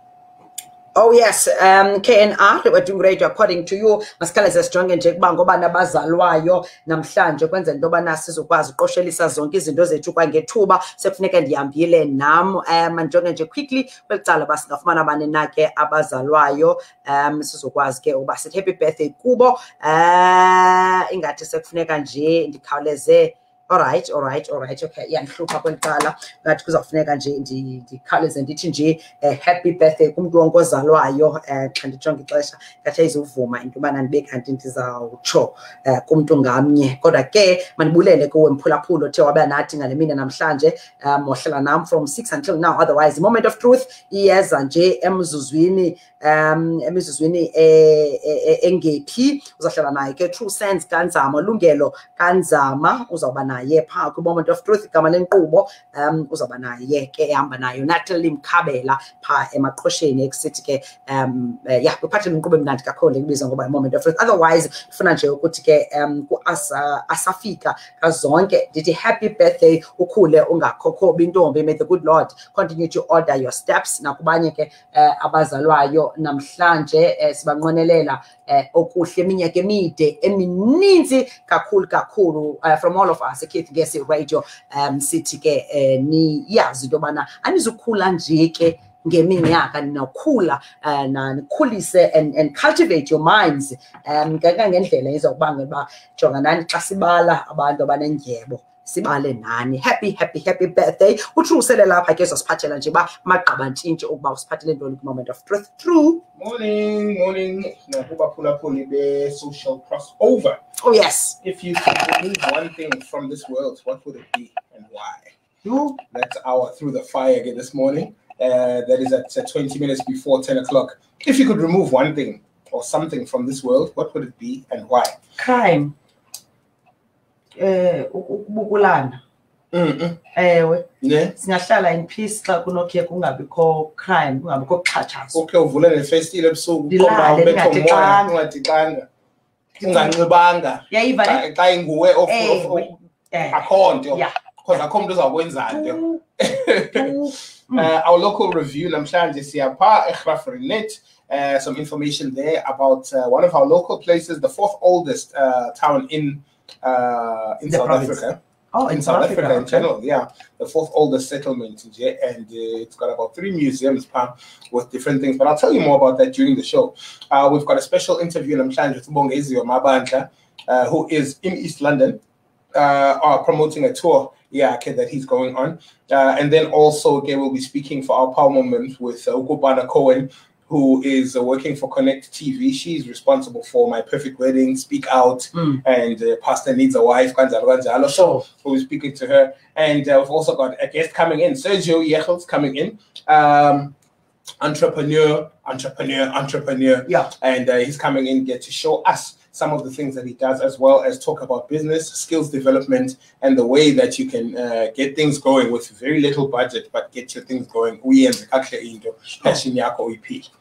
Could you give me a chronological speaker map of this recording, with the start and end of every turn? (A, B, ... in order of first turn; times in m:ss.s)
0:00.9-1:46.2 A
1:46.4-1:50.6 B
1:50.8-1:51.4 A
1:51.4-1:55.3 B
1:55.6-1:56.0 A
1:56.1-2:05.2 B
2:05.4-2:05.9 A
2:07.6-2:09.2 A
2:09.7-2:10.2 B
2:10.3-2:15.4 A
2:11.0-2:11.3 B
2:15.3-2:19.1 B
2:16.9-2:18.3 A
2:19.8-2:22.9 B
2:19.8-2:20.2 A
2:20.9-2:21.4 A
2:22.2-2:24.8 A
2:23.5-2:52.2 B
2:25.7-2:26.2 A
2:26.9-2:27.9 A
2:37.7-2:38.2 A
2:38.7-2:39.9 A
2:52.7-3:13.9 B
3:14.6-3:30.5 B